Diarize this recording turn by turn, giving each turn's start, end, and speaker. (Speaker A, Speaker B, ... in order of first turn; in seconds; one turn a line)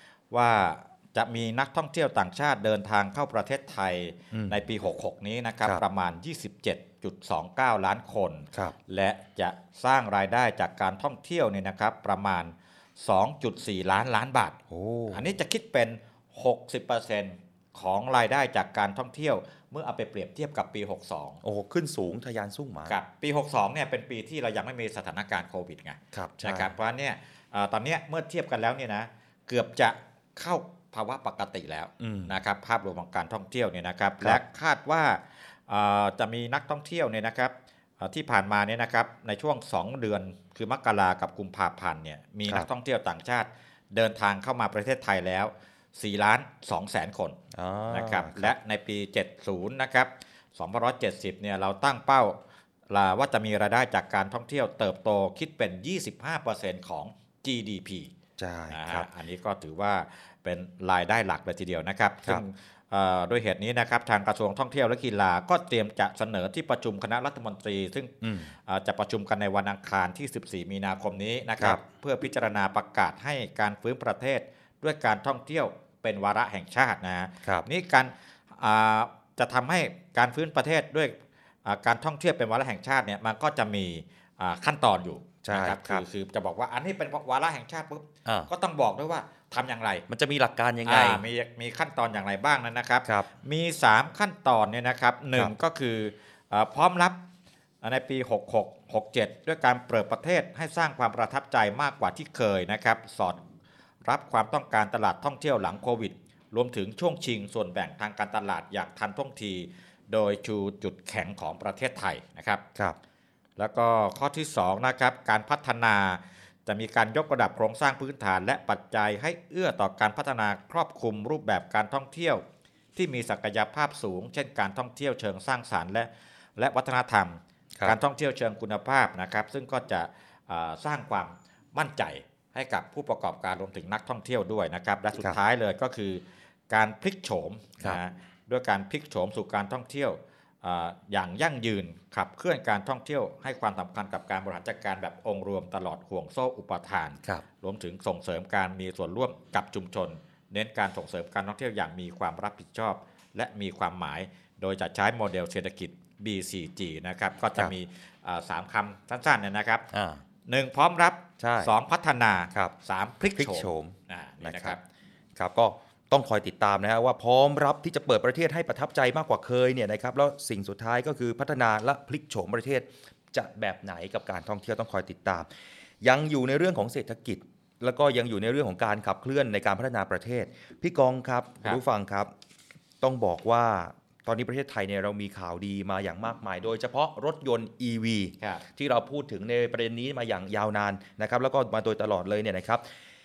Speaker A: 0.3-14.6
Speaker B: 4.3-4.6
Speaker B: 14.7-15.2
Speaker A: 15.1-21.4
Speaker B: 21.4-23.0
Speaker A: 22.9-47.4
Speaker B: 26.1-26.7
Speaker B: 32.0-32.4
Speaker B: 47.5-48.5
Speaker A: 47.9-52.4
Speaker A: 52.9-58.1
Speaker B: 58.4-59.1
Speaker A: 58.7-68.1
Speaker B: 68.2-68.5
Speaker A: 68.7-90.0
Speaker B: 85.4-86.0
Speaker B: 88.2-88.5
Speaker B: 90.1-91.2
Speaker A: 90.8-97.2
Speaker A: 97.8-103.4
Speaker A: 104.0-112.6
Speaker A: 113.6-122.4
Speaker A: 123.0-159.8
Speaker B: 159.9-160.2
Speaker A: 160.5-164.8
Speaker B: 161.4-161.7
Speaker B: 163.3-164.8
Speaker B: 165.3-175.5
Speaker B: 176.0-182.3
Speaker B: 183.0-192.8